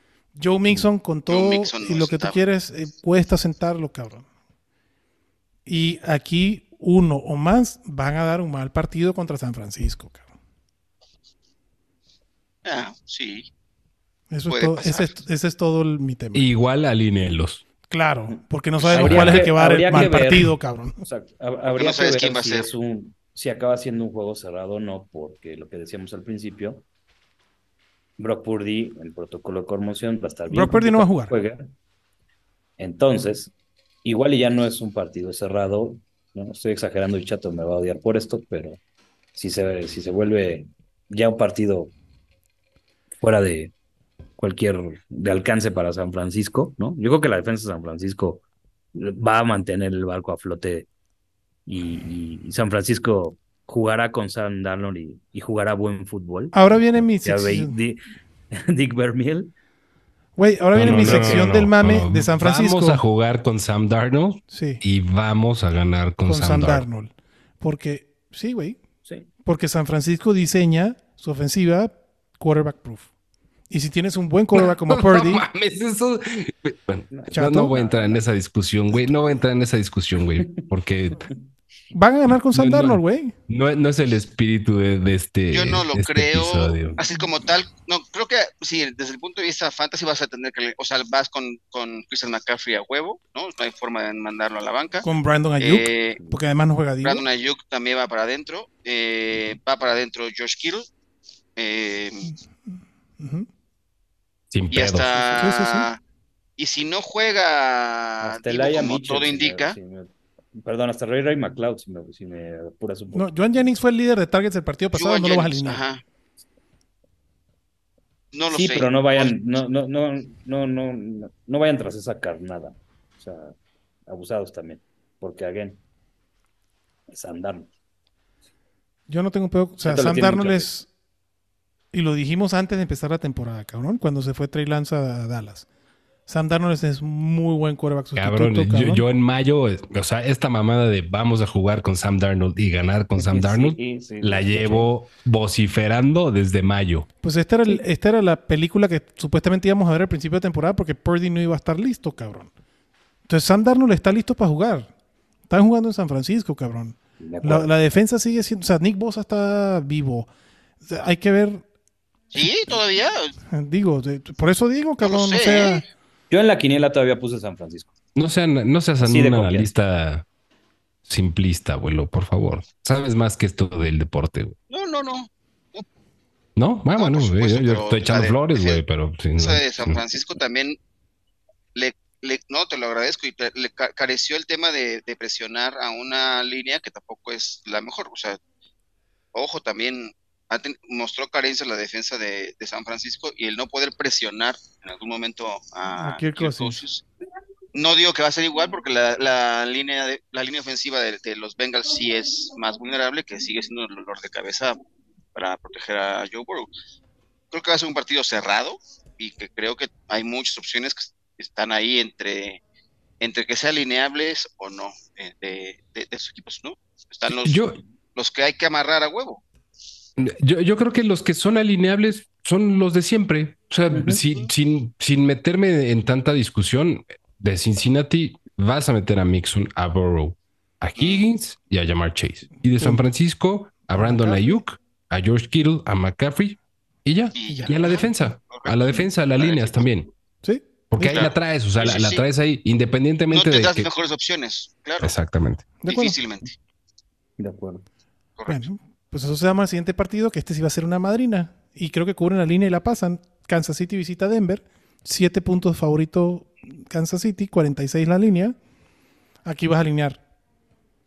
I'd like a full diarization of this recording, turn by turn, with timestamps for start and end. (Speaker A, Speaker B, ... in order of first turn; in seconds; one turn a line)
Speaker A: 0.3-4.2
Speaker B: 1.3-2.4
Speaker A: 5.7-10.3
Speaker B: 12.6-13.5
Speaker A: 14.3-16.5
Speaker B: 14.5-15.1
Speaker C: 16.3-17.6
Speaker A: 17.9-21.0
Speaker D: 18.9-26.8
Speaker C: 18.9-19.5
Speaker B: 21.7-22.7
Speaker D: 28.2-31.7
Speaker A: 30.5-31.3
Speaker D: 32.8-33.5
Speaker D: 34.0-38.8
Speaker D: 39.3-41.9
Speaker D: 43.2-43.7
Speaker D: 44.4-50.9
Speaker D: 51.6-58.0
Speaker A: 56.5-57.7
Speaker D: 58.5-59.5
Speaker A: 60.4-63.0
Speaker C: 60.7-66.8
Speaker D: 60.8-61.5
Speaker A: 64.5-64.8
Speaker A: 66.2-68.8
Speaker A: 69.4-73.1
Speaker A: 73.7-75.5
Speaker C: 74.6-81.3
Speaker D: 77.1-78.2
Speaker A: 77.3-77.8
Speaker A: 81.9-83.3
Speaker C: 82.5-87.0
Speaker B: 85.5-95.0
Speaker A: 95.0-97.2
Speaker B: 95.6-96.2
Speaker B: 97.0-100.9
Speaker B: 101.6-102.3
Speaker A: 103.2-103.5
Speaker C: 104.5-105.2
Speaker B: 104.7-106.0
Speaker A: 105.3-105.9
Speaker B: 106.6-109.8
Speaker D: 108.2-113.3
Speaker A: 113.1-115.8
Speaker B: 114.9-116.0
Speaker B: 118.3-119.3
Speaker D: 118.5-125.8
Speaker D: 127.1-127.7
Speaker A: 129.1-130.9
Speaker D: 129.8-130.7
Speaker A: 131.9-135.7
Speaker A: 136.3-139.1
Speaker C: 138.2-147.1
Speaker D: 143.2-144.9
Speaker A: 147.2-152.5
Speaker A: 153.3-154.9
Speaker A: 155.5-160.3
Speaker D: 157.2-157.7
Speaker A: 160.8-161.6
Speaker B: 162.3-163.3
Speaker A: 163.5-165.8
Speaker B: 165.0-165.8
Speaker D: 166.3-167.9
Speaker C: 168.1-170.2
Speaker D: 169.0-169.7
Speaker C: 171.1-174.5
Speaker B: 174.7-175.8
Speaker C: 176.6-180.0
Speaker B: 177.0-178.8
Speaker B: 179.4-180.8
Speaker B: 181.7-188.4
Speaker B: 189.3-197.0
Speaker A: 196.0-196.8
Speaker B: 197.7-204.8
Speaker B: 205.3-206.7
Speaker B: 207.5-212.6
Speaker B: 213.2-217.6
Speaker C: 217.3-217.8
Speaker B: 218.1-219.4
Speaker C: 220.2-240.1
Speaker D: 223.9-224.2
Speaker B: 231.0-231.2
Speaker A: 233.9-234.6
Speaker B: 237.3-239.9
Speaker A: 237.5-237.7
Speaker A: 240.4-241.2
Speaker C: 240.9-243.9
Speaker B: 241.0-242.2
Speaker B: 243.3-245.1
Speaker C: 245.0-245.8
Speaker A: 245.8-246.2
Speaker B: 245.8-246.5
Speaker D: 247.4-247.8
Speaker B: 248.4-248.6
Speaker A: 248.5-258.6
Speaker A: 259.4-260.2